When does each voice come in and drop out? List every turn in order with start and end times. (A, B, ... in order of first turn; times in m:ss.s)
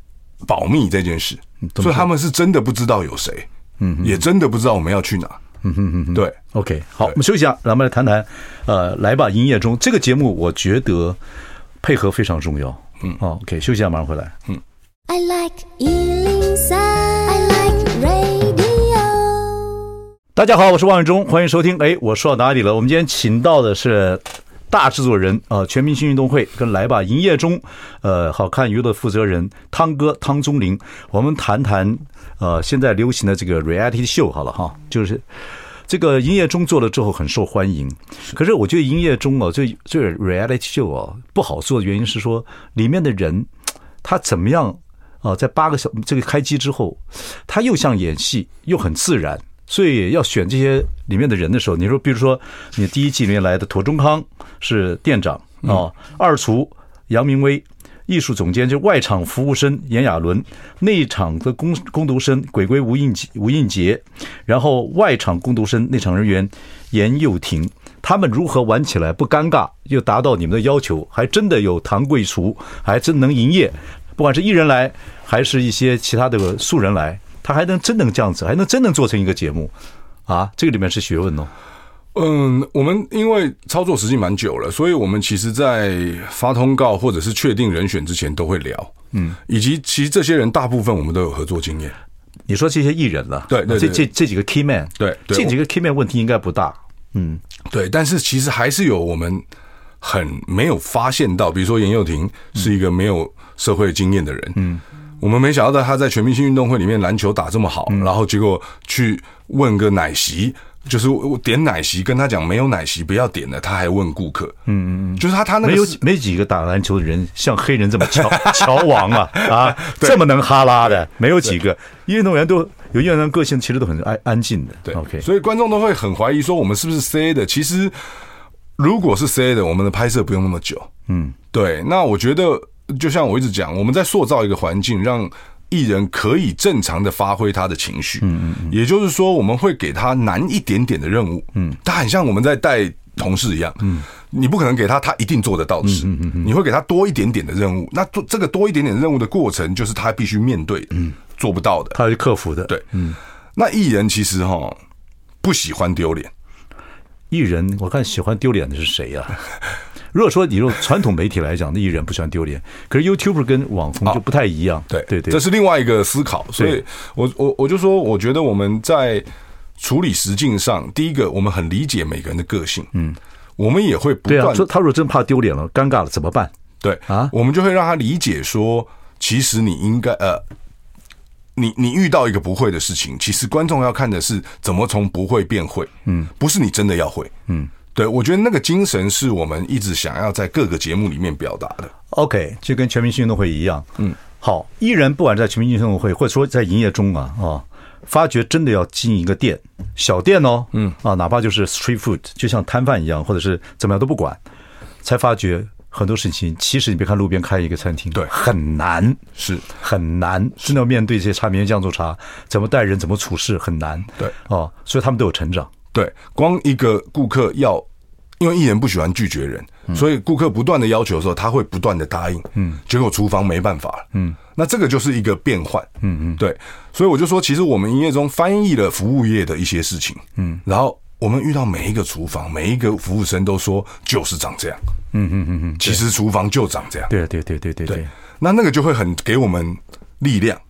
0:00.4-0:03.5 A
0:01.7-0:02.1 B
0:03.8-0:04.2 B
0:04.0-0:05.4 A
0:05.6-0:11.2 B
0:11.8-0:14.4 B
0:15.1-0:19.8 C
0:20.4-0:35.2 B
0:35.9-0:43.5 B
0:44.0-1:19.7 B
1:20.3-1:21.5 B
1:22.1-1:28.9 A
1:29.1-1:29.4 B
1:29.5-1:32.0 A
1:32.5-1:37.4 B
1:33.5-1:34.1 A
1:35.0-1:35.6 A
1:37.7-1:39.4 A
1:40.0-1:44.6 A
1:44.6-1:44.8 B
1:45.2-1:54.6 A
1:54.7-2:05.2 B
1:55.2-1:56.0 A
1:59.4-2:00.2 A
2:04.9-2:08.0 A
2:08.8-2:10.9 A
2:11.1-2:11.4 B
2:11.5-2:32.0 A
2:18.2-2:18.8 B
2:25.8-2:26.5 B
2:31.9-2:33.2 B
2:33.6-2:34.8 A
2:35.4-2:36.3 A
2:37.3-2:39.4 B
2:40.1-2:45.4 B
2:44.9-2:49.3 A
2:49.8-2:52.9 A
2:53.6-2:54.7 A
2:54.3-2:56.5 B
2:56.8-3:00.4 A
3:01.6-3:07.3 A
3:07.9-3:11.9 A
3:12.1-3:24.4 B
3:25.0-3:35.7 B
3:29.4-3:29.6 A
3:35.9-3:37.9 A
3:38.4-3:54.8 A
3:46.0-3:46.4 B
3:50.4-3:50.6 B
3:55.1-3:56.0 B
3:55.8-3:57.1 A
3:57.1-3:58.1 B
3:57.9-4:00.6 A